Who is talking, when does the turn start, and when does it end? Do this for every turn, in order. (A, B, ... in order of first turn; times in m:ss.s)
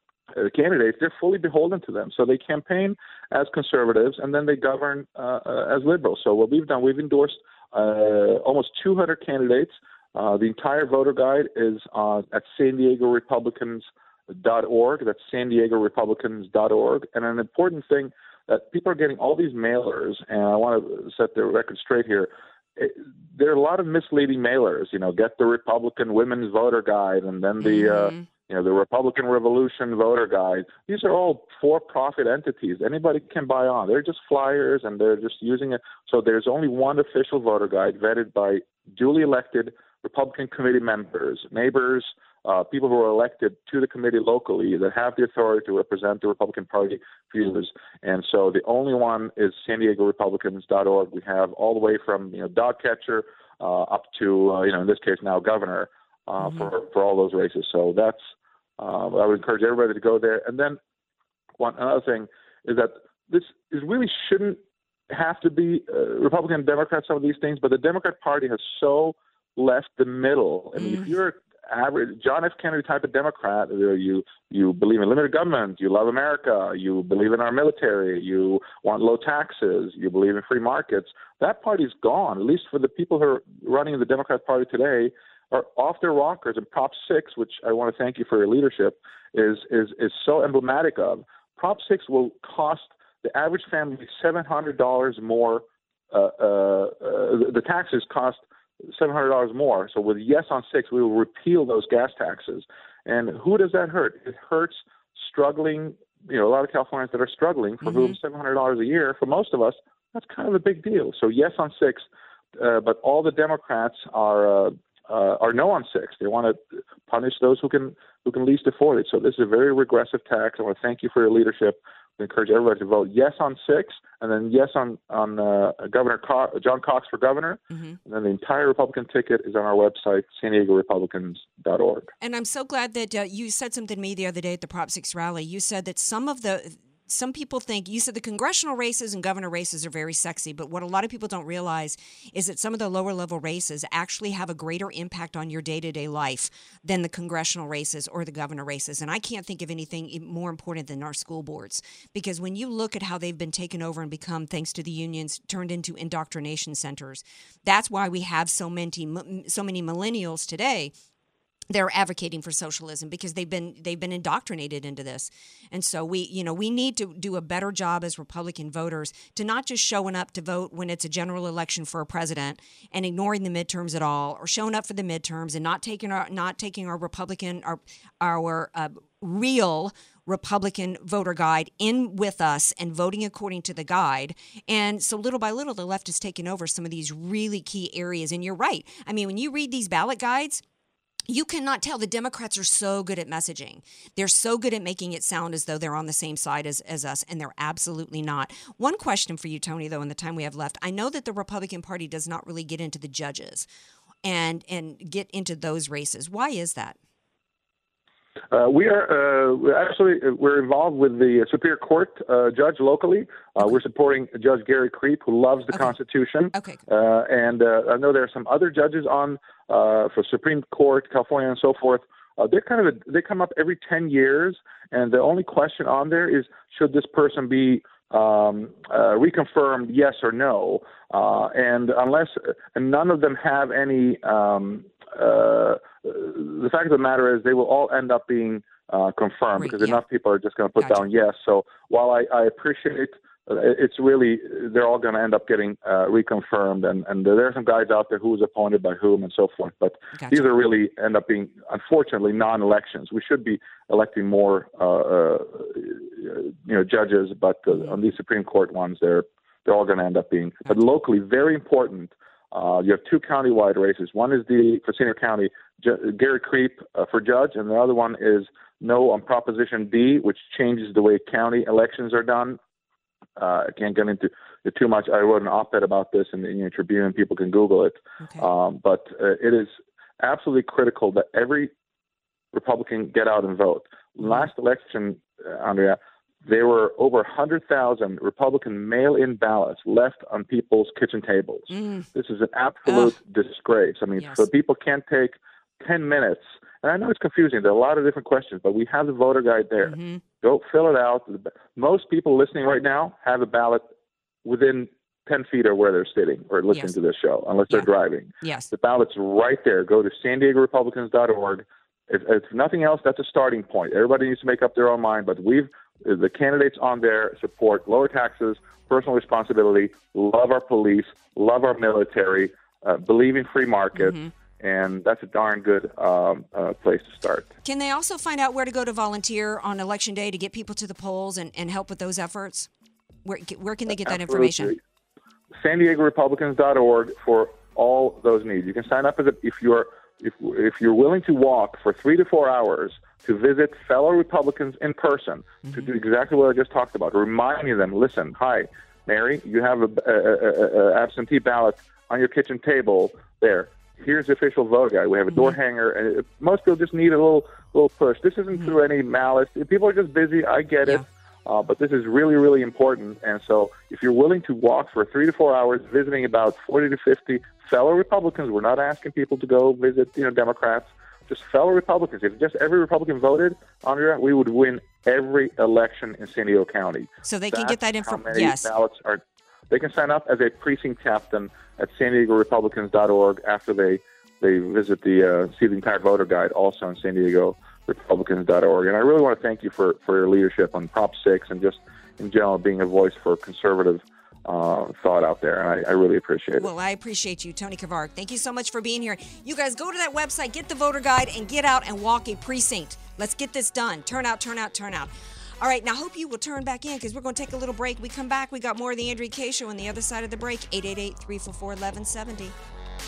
0:00.3-0:58.2 A
0:27.6-0:28.2 B
0:56.4-0:56.7 B
0:58.8-1:00.8 A
1:01.6-1:04.6 A
1:05.1-1:38.4 A
1:10.8-1:11.1 B
1:38.9-1:52.0 A
1:47.8-1:48.1 B
1:52.6-2:12.1 A
2:07.7-2:08.0 B
2:12.2-2:40.9 B
2:41.7-3:10.6 B
3:11.3-3:23.7 B
3:24.2-3:27.0 B
3:28.5-4:32.6 A
3:36.5-3:36.8 B
3:59.6-4:00.0 B
4:00.8-4:01.1 B
4:10.2-4:10.4 B
4:33.4-4:41.7 A
4:42.5-5:03.8 A
4:44.2-4:44.5 B
4:51.7-4:52.1 B
4:52.8-4:53.1 B
4:54.2-4:54.5 B
4:59.8-5:00.2 B
5:04.4-5:27.5 A
5:08.4-5:08.7 B
5:24.0-5:24.3 B
5:27.6-5:32.7 B
5:33.2-5:34.7 B
5:33.9-5:34.8 A
5:35.6-6:36.7 A
5:45.6-5:45.9 B
6:17.2-6:18.7 B
6:36.6-6:52.5 B